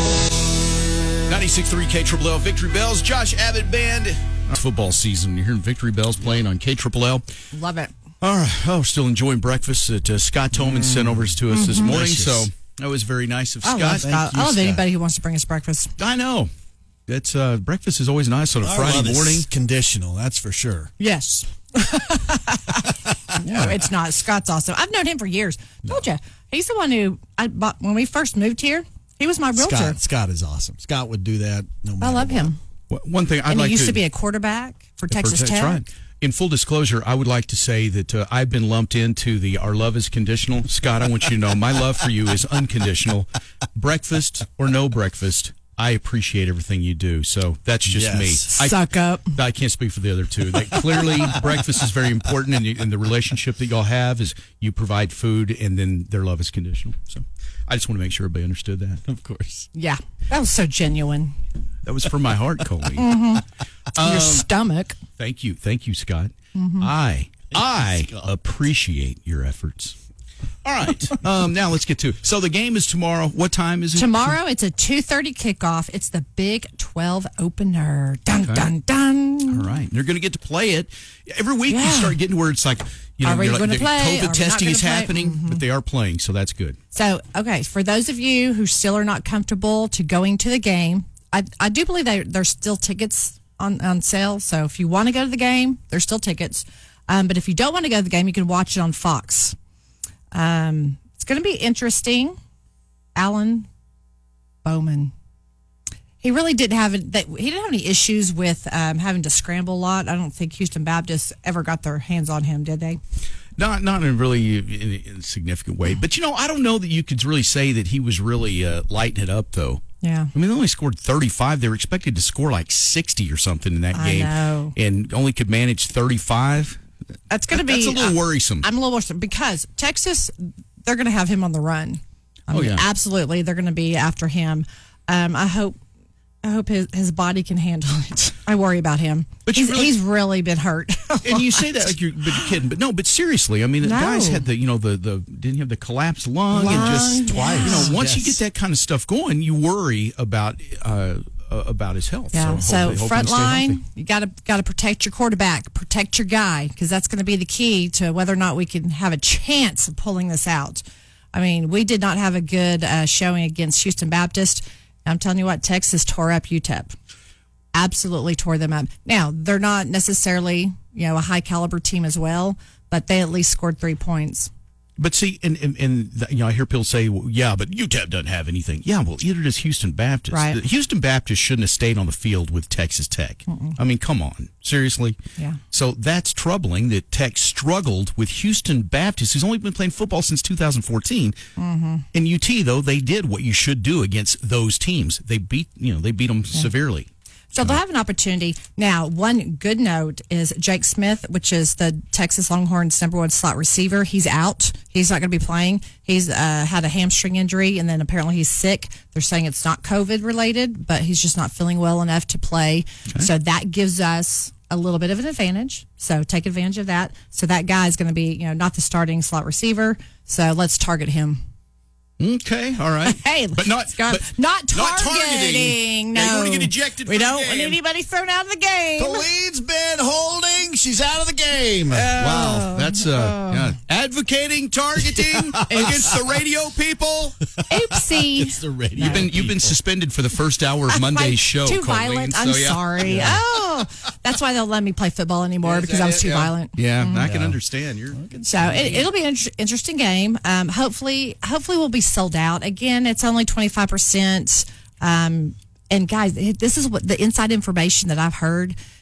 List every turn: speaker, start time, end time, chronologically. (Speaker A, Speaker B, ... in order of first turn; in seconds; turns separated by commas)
Speaker A: 1.3-7.2, Speaker B: 7.5-7.9, Speaker A: 8.2-14.1, Speaker C: 10.8-11.3, Speaker B: 11.5-12.0, Speaker C: 11.8-12.5, Speaker B: 13.6-15.9, Speaker C: 14.0-14.8, Speaker A: 16.0-16.5, Speaker A: 17.1-19.5, Speaker C: 18.6-20.9, Speaker B: 21.0-30.0, Speaker C: 23.3-23.7, Speaker C: 29.6-32.5, Speaker B: 32.0-32.6, Speaker A: 32.9-34.0, Speaker B: 33.5-35.8, Speaker A: 35.1-48.8, Speaker C: 47.9-48.4, Speaker B: 48.5-49.4, Speaker A: 49.3-59.0, Speaker C: 59.0-59.7, Speaker B: 59.7-61.4, Speaker A: 61.8-63.1, Speaker B: 63.0-63.4, Speaker A: 63.9-64.5, Speaker B: 64.0-65.0, Speaker A: 65.2-69.9, Speaker B: 66.5-66.9, Speaker A: 70.6-74.4, Speaker B: 74.0-79.7, Speaker A: 78.3-78.7, Speaker A: 79.5-86.8, Speaker B: 81.7-82.2, Speaker B: 83.2-85.6, Speaker B: 86.9-99.5, Speaker B: 100.3-102.3, Speaker B: 103.1-103.7, Speaker B: 104.6-105.1, Speaker B: 106.2-113.0, Speaker A: 113.6-119.8, Speaker B: 120.0-120.3, Speaker A: 120.3-126.8, Speaker B: 123.9-124.7, Speaker B: 127.3-135.8, Speaker A: 127.5-128.7, Speaker A: 132.5-132.8, Speaker B: 136.4-141.8, Speaker A: 139.4-139.9, Speaker A: 141.2-153.8, Speaker B: 143.8-144.4, Speaker B: 146.5-147.9, Speaker C: 146.7-148.4, Speaker B: 152.3-166.9, Speaker B: 167.7-174.5, Speaker A: 175.0-185.2, Speaker B: 180.3-180.6, Speaker B: 183.5-183.8, Speaker A: 185.7-191.3, Speaker B: 191.6-192.1, Speaker A: 192.1-197.8, Speaker B: 197.5-221.4, Speaker A: 222.2-227.8, Speaker B: 223.1-229.3, Speaker C: 229.0-232.7, Speaker A: 232.1-237.4, Speaker B: 232.1-233.7, Speaker C: 235.2-235.9, Speaker B: 237.7-239.3, Speaker C: 237.8-239.8, Speaker A: 239.0-243.4, Speaker B: 240.9-247.3, Speaker A: 245.7-248.2, Speaker C: 247.2-247.6, Speaker C: 248.2-249.1, Speaker B: 248.4-258.8